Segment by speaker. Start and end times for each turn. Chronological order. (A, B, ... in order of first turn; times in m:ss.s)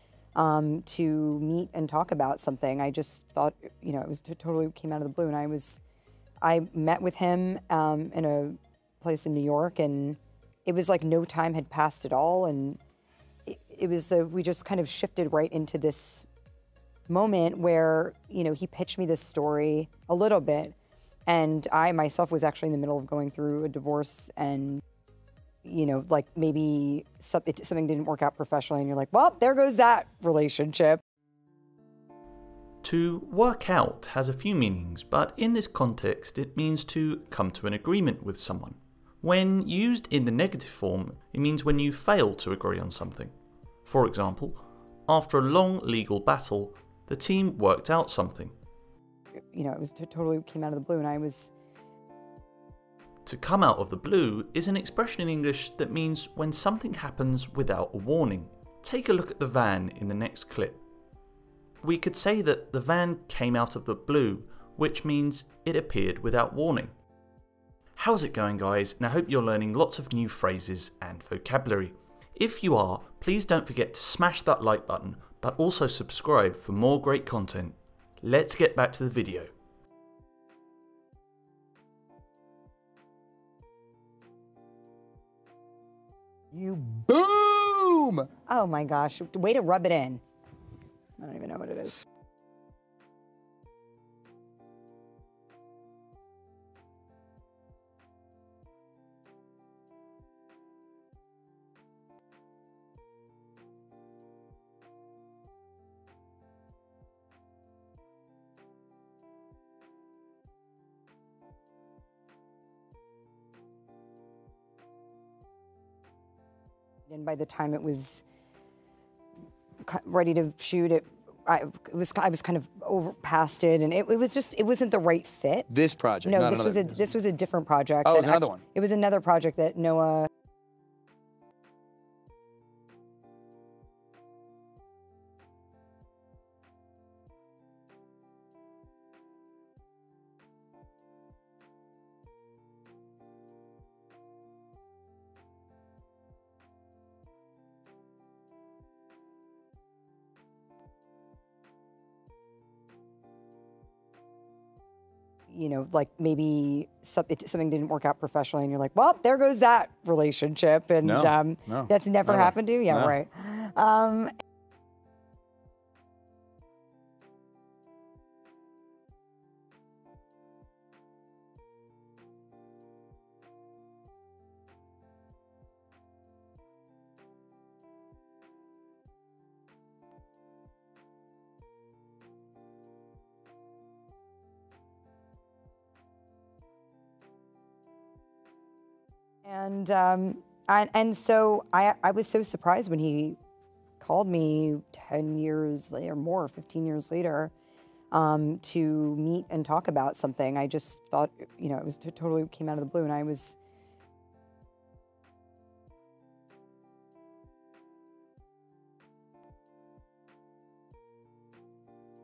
0:00.4-0:05.8 A
0:06.4-0:12.8 A
0:13.5-0:16.3 A
0:17.1-0:20.7 A
0:21.3-0:24.8 A
0:25.6-0:31.0 A
0:32.8-0:43.3 B
0:43.8-0:48.5 B
0:49.5-0:51.5 A
0:53.2-1:00.8 B
1:01.8-1:06.9 B
1:08.0-1:19.5 B
1:26.5-1:28.3 C
1:28.5-1:30.2 A
1:31.2-1:32.0 A
1:57.1-1:58.2 A
1:59.8-2:05.7 A
2:05.7-2:07.1 C
2:06.2-2:10.3 A
2:08.0-2:08.6 C
2:35.5-2:44.3 A
2:41.0-2:43.1 C
3:09.4-3:13.4 A
3:14.0-3:17.5 A
3:18.1-3:23.6 A